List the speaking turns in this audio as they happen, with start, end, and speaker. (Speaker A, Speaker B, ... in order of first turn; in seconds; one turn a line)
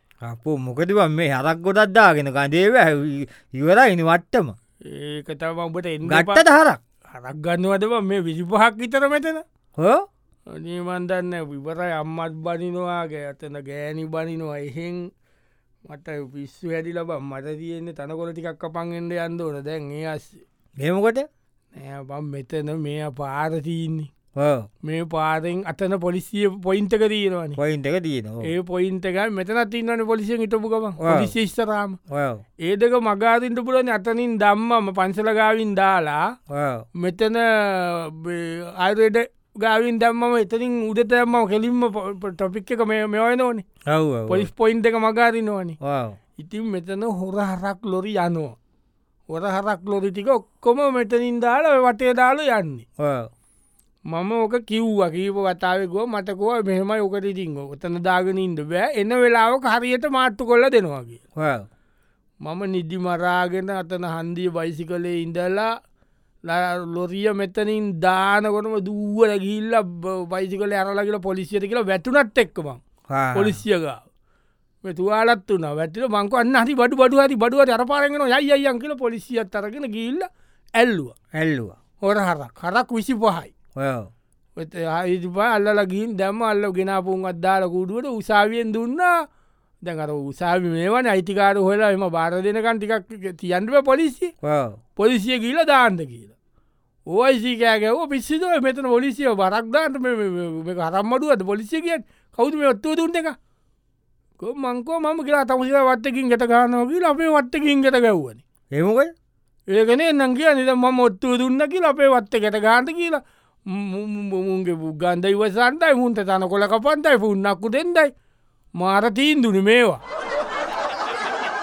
Speaker A: 0.2-4.6
Speaker B: 4.8-6.4
Speaker A: 6.1-6.8
Speaker B: 7.1-9.4
Speaker A: 9.8-10.1
Speaker B: 10.5-15.1
Speaker B: 15.9-20.4
Speaker A: 20.8-21.3
Speaker B: 21.7-24.1
Speaker A: 24.4-24.7
Speaker B: 24.8-27.6
Speaker A: 27.6-28.5
Speaker B: 28.4-32.0
Speaker A: 31.0-31.3
Speaker A: 32.1-32.4
Speaker B: 32.6-36.3
Speaker A: 36.5-36.9
Speaker B: 37.0-43.7
Speaker A: 43.9-44.5
Speaker B: 44.3-45.8
Speaker A: 45.8-46.2
Speaker B: 46.4-48.6
Speaker B: 49.3-52.9
Speaker A: 53.0-53.3
Speaker B: 54.1-61.2
Speaker A: 61.4-61.7
Speaker B: 62.4-65.8
Speaker B: 66.5-72.8
Speaker A: 73.1-73.6
Speaker B: 73.3-74.0
Speaker B: 74.8-81.2
Speaker A: 81.3-81.8
Speaker B: 82.0-83.5
Speaker A: 83.8-84.1
Speaker B: 84.6-89.2
Speaker B: 89.8-94.3
Speaker A: 94.4-94.8
Speaker B: 95.0-96.3
Speaker B: 97.1-103.4
Speaker B: 104.4-108.4
Speaker A: 108.7-109.1
Speaker B: 109.7-118.1
Speaker B: 118.8-120.0